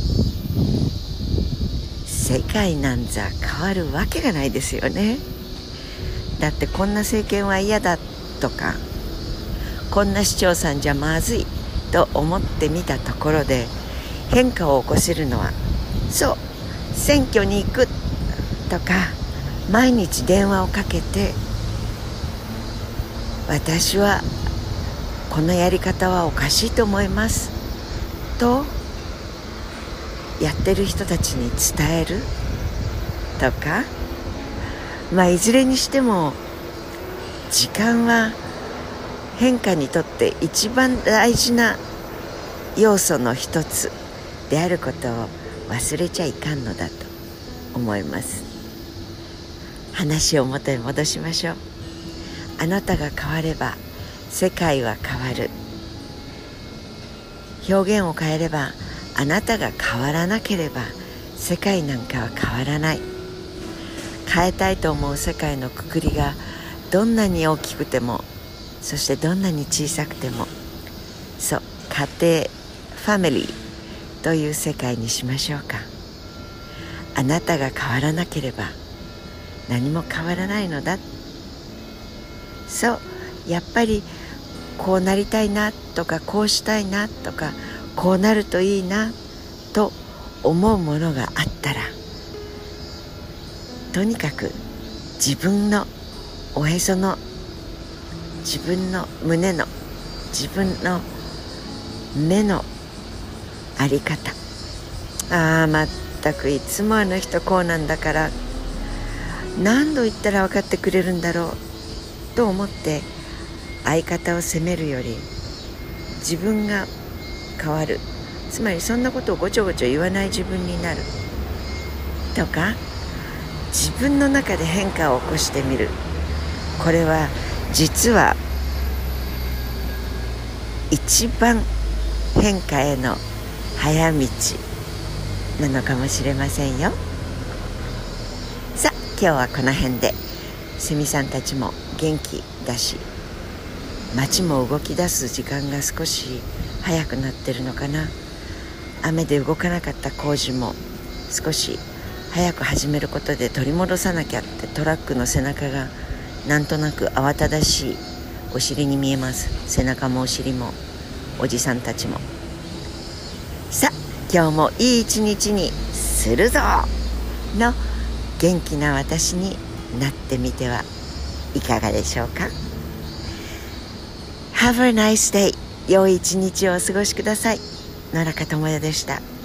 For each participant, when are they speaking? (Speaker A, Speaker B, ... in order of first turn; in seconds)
Speaker A: 2.0-5.2, 6.4-8.8, 9.9-13.7, 14.3-15.6, 16.1-17.9, 18.7-21.4, 23.5-24.2, 25.3-27.5, 28.4-28.8, 30.4-32.3, 33.4-33.9, 35.1-36.4, 37.5-38.4, 39.3-41.8, 42.7-43.9, 44.5-47.1, 47.7-48.5, 49.9-51.6, 52.6-55.5, 57.6-63.0, 64.2-68.2, 68.8-70.5, 71.4-73.6, 74.2-75.9, 77.1-78.8, 79.7-81.0, 82.7-84.1, 84.8-89.1, 89.7-91.9, 93.9-94.6, 95.2-95.9, 96.5-97.2, 98.4-99.7, 100.3-101.1, 102.1-102.7, 103.8-104.4, 105.3-108.3, 109.5-111.6, 112.3-113.1, 113.8-115.3, 116.2-116.9, 117.6-121.1, 122.3-122.8, 123.7-126.0, 126.8-128.4, 130.9-131.7, 132.3-133.2, 133.8-134.6, 135.6-137.0, 138.7-140.2, 140.8-143.1, 144.1-148.1, 149.0-155.9, 156.4-160.8, 161.4-162.2, 163.7-166.9, 167.5-167.8, 168.4-170.9, 171.5-172.5, 174.5-179.2